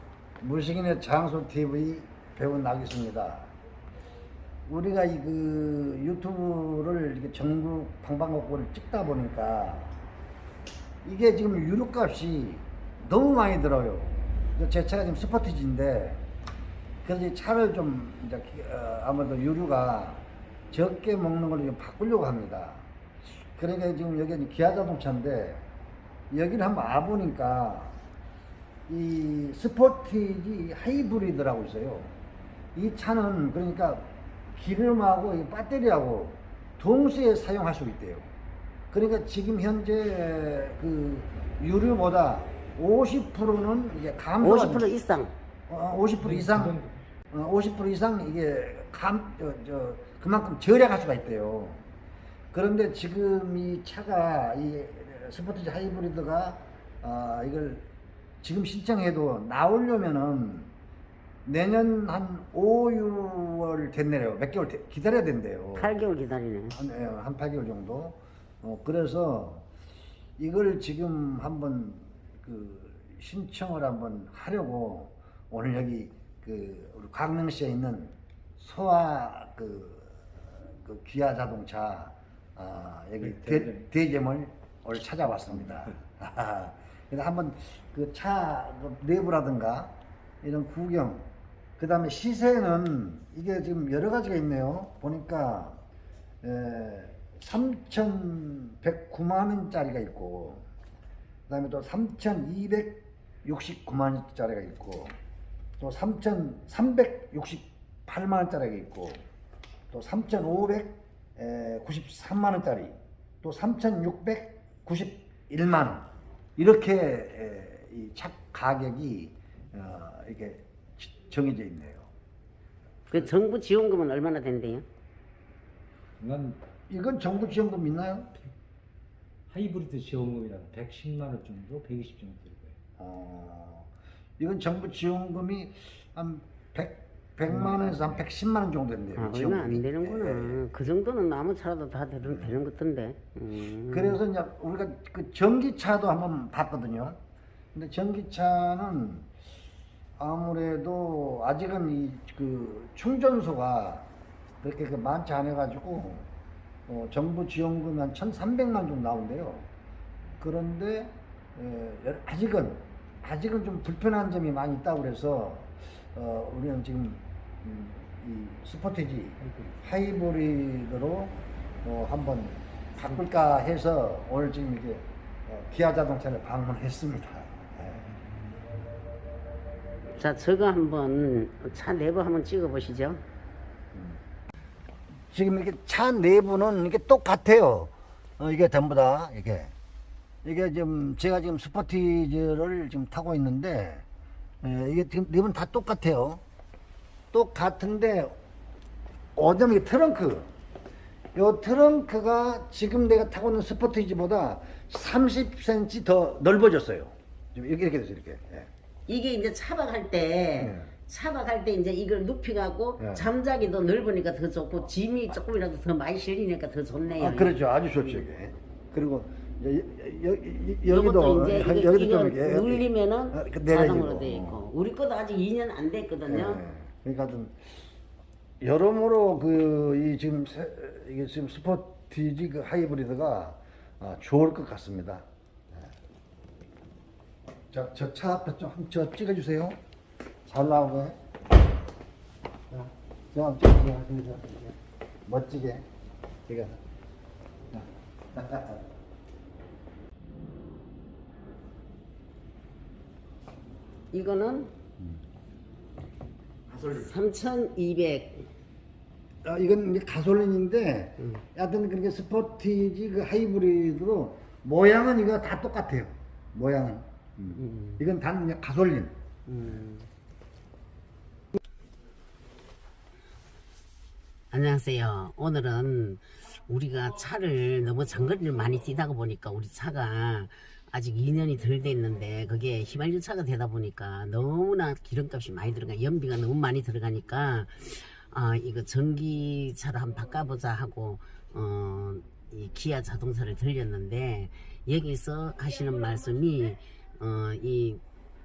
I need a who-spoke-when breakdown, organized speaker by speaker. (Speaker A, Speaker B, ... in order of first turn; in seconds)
Speaker A: 0.4-3.5, 4.7-9.9, 11.0-16.2, 17.0-22.9, 23.5-25.7, 26.3-28.0, 28.9-32.1, 32.8-38.3, 38.9-44.9, 45.7-46.8, 47.3-51.9, 52.5-57.9, 58.4-60.7, 61.5-66.0, 66.7-69.7, 70.4-80.2, 80.8-95.8, 96.4-100.6, 101.5-105.1, 105.8-109.2, 109.9-122.1, 126.9-128.3, 133.0-140.6, 142.2-142.6, 143.9-147.2, 147.7-149.3, 150.2-154.1, 154.6-156.3, 156.9-159.7, 160.4-178.1, 183.9-184.2, 185.3-189.7, 190.4-194.1, 194.6-196.4, 197.3-198.4, 199.4-200.5, 201.3-208.7, 210.6-210.9, 213.0-213.3, 217.2-224.6, 226.2-227.8, 228.6-235.9, 237.7-239.8, 240.5-241.2, 242.7-245.8, 246.5-246.8, 247.7-248.8, 256.7-257.0, 259.4-269.1
Speaker B: 44.4-45.3, 65.8-66.8, 123.1-124.8, 139.2-144.2, 180.2-183.2, 209.1-218.2, 220.9-226.6, 254.1-254.7, 256.9-258.5, 267.6-268.0, 269.5-270.1, 274.5-298.0
Speaker C: 46.2-47.0, 83.2-83.9, 126.2-126.6, 129.5-132.8, 137.5-138.2